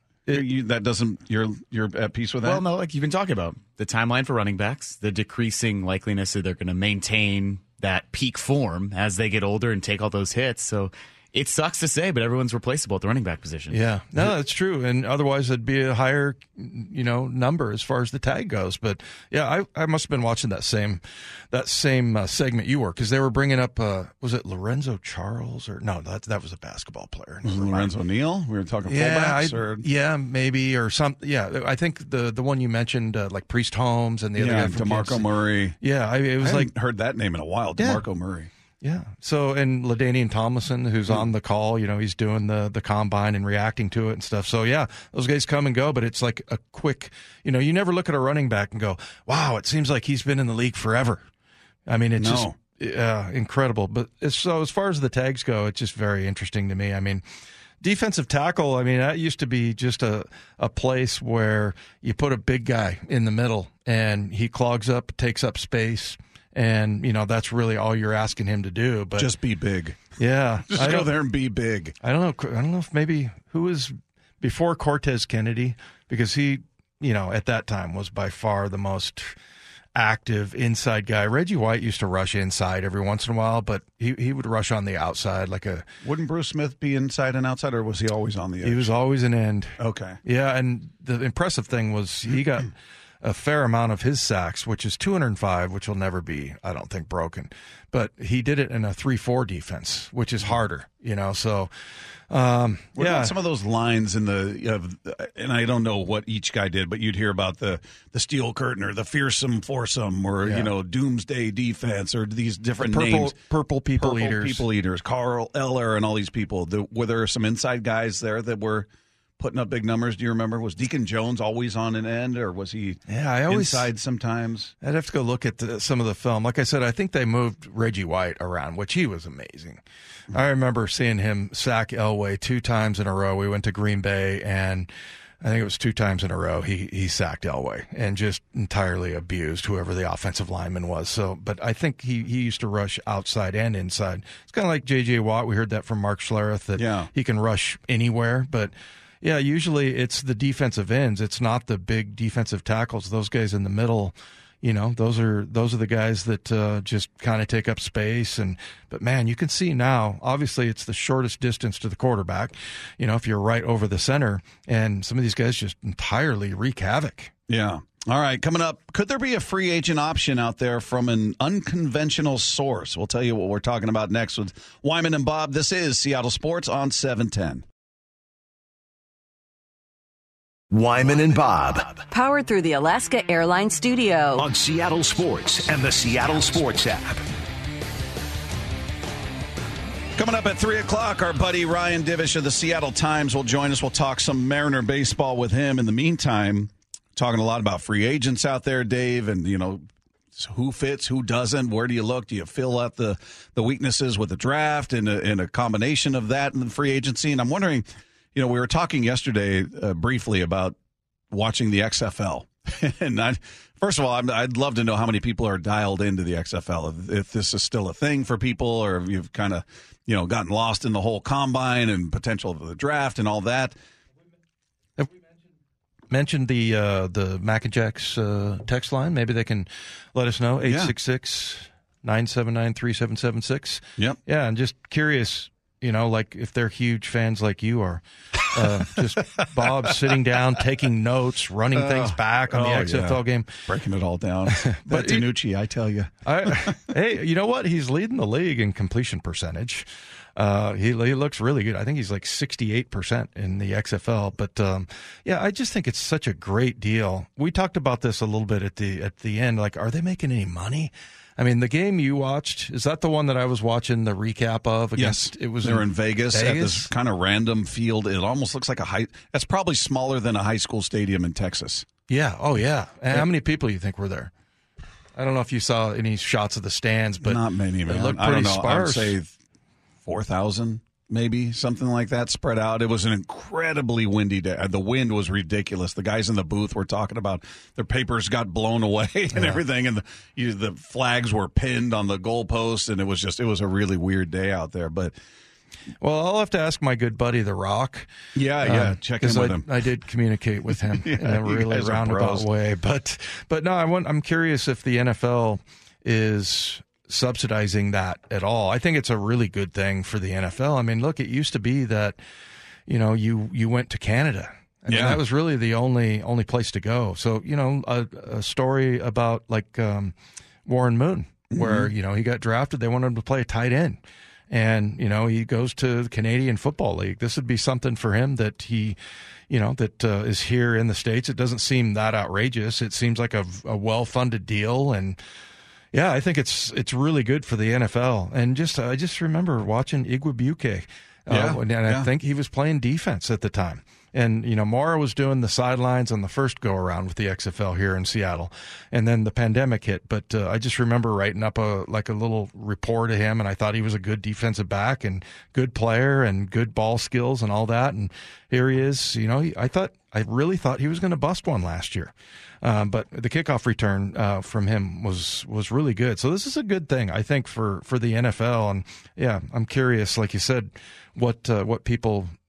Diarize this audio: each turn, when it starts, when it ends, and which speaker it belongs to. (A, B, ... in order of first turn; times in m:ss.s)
0:00.3-0:02.6 A
0:02.4-0:13.8 B
0:13.7-0:27.9 C
0:27.4-0:29.8 A
0:28.8-0:35.3 C
0:34.4-0:35.8 A
0:35.8-0:36.7 C
0:36.4-0:38.5 A
0:37.8-0:38.0 C
0:38.8-0:51.2 C
0:51.9-0:57.2 C
0:52.2-0:52.6 A
0:57.8-1:09.3 C
1:09.2-1:10.1 A
1:10.2-1:11.1 C
1:10.7-1:12.0 A
1:12.0-1:19.3 C
1:20.0-1:25.8 C
1:26.0-1:28.9 A
1:28.6-1:41.7 C
1:29.8-1:30.2 A
1:42.3-1:43.3 C
1:43.0-1:53.4 A
1:50.4-1:50.7 C
1:52.8-1:54.6 C
1:54.0-1:58.9 A
1:59.4-2:04.7 A
2:03.1-2:03.9 C
2:04.8-2:14.9 C
2:15.4-2:47.3 C
2:26.8-2:27.1 A
2:47.5-2:57.6 A
3:00.7-3:02.0 D
3:02.1-3:04.4 E
3:04.4-3:07.2 D
3:10.2-3:19.8 A
3:20.3-3:30.8 A
3:31.3-3:43.8 A
3:46.1-4:03.6 C
3:50.6-3:50.9 A
3:59.6-3:59.9 A
4:01.7-4:06.8 A
4:04.5-4:05.3 C
4:06.2-4:26.9 C
4:25.0-4:31.8 A
4:32.1-4:34.3 C
4:35.2-4:39.2 C
4:37.2-4:39.3 A
4:40.0-4:55.1 A
4:49.3-4:49.6 C
4:56.0-4:58.1 C
4:58.3-4:59.7 A
4:58.6-5:12.2 C
5:00.7-5:02.5 A
5:12.9-5:29.0 C
5:14.9-5:15.2 A
5:21.5-5:21.9 A
5:29.5-5:35.2 C
5:35.9-6:12.3 C
5:41.3-5:42.1 A